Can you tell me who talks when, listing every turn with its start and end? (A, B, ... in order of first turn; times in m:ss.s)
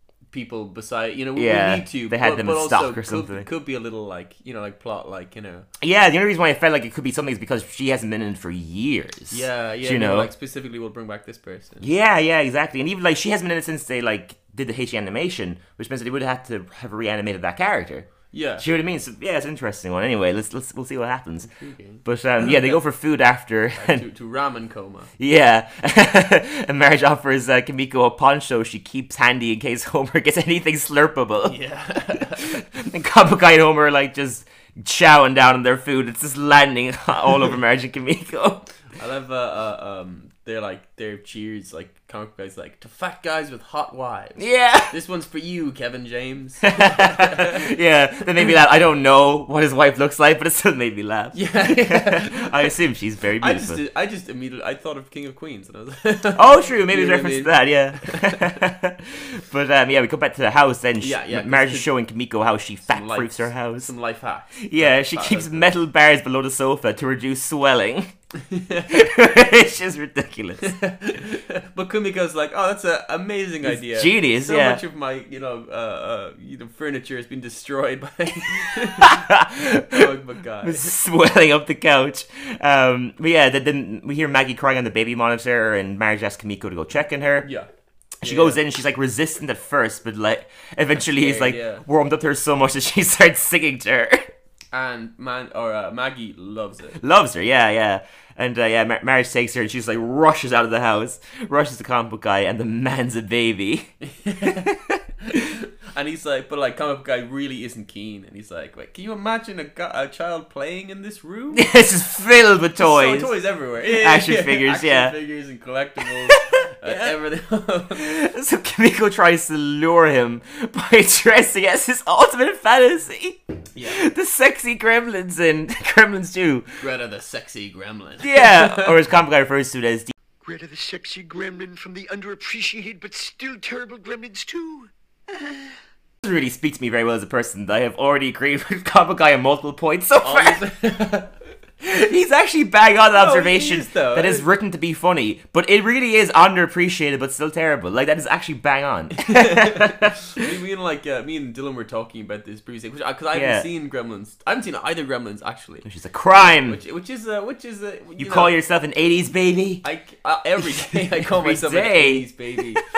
0:00.3-0:05.7 A
0:01.4-0:03.5 B
0:05.8-0:10.3 B
0:09.3-0:11.9 A
0:11.8-0:21.5 B
0:18.3-0:18.6 A
0:21.4-0:22.0 A
0:22.0-0:24.0 B
0:23.8-0:25.1 A
0:25.2-0:31.6 B
0:31.4-0:32.6 A
0:32.4-0:38.7 B
0:39.0-0:47.7 A
0:44.4-0:44.9 B
0:46.8-0:53.8 B
0:51.3-0:52.6 A
0:53.4-0:58.5 A
0:56.3-1:03.9 B
1:01.0-1:01.9 A
1:02.9-1:05.7 A
1:04.6-1:08.1 B
1:08.4-1:08.9 A
1:08.9-1:10.6 B
1:10.6-1:19.3 A
1:13.6-1:14.8 B
1:18.8-1:20.1 B
1:19.8-1:20.9 A
1:20.6-1:27.5 B
1:27.4-1:27.7 A
1:28.2-1:34.3 B
1:28.2-1:28.6 A
1:31.0-1:31.8 A
1:34.7-1:37.0 A
1:37.0-1:43.9 B
1:44.0-1:44.7 A
1:44.4-1:45.0 B
1:45.3-1:51.7 A
1:51.5-1:55.2 B
1:52.8-1:58.0 A
1:56.8-1:57.2 B
1:58.0-2:06.8 B
2:03.8-2:04.0 A
2:06.8-2:09.0 A
2:08.2-2:10.1 B
2:10.4-2:14.9 C
2:16.2-2:20.6 B
2:20.2-2:21.3 A
2:21.8-2:30.2 B
2:23.1-2:24.5 A
2:29.2-2:38.6 A
2:33.3-2:33.7 B
2:35.8-2:36.8 B
2:38.2-2:39.8 B
2:39.8-2:42.8 A
2:40.9-2:42.8 B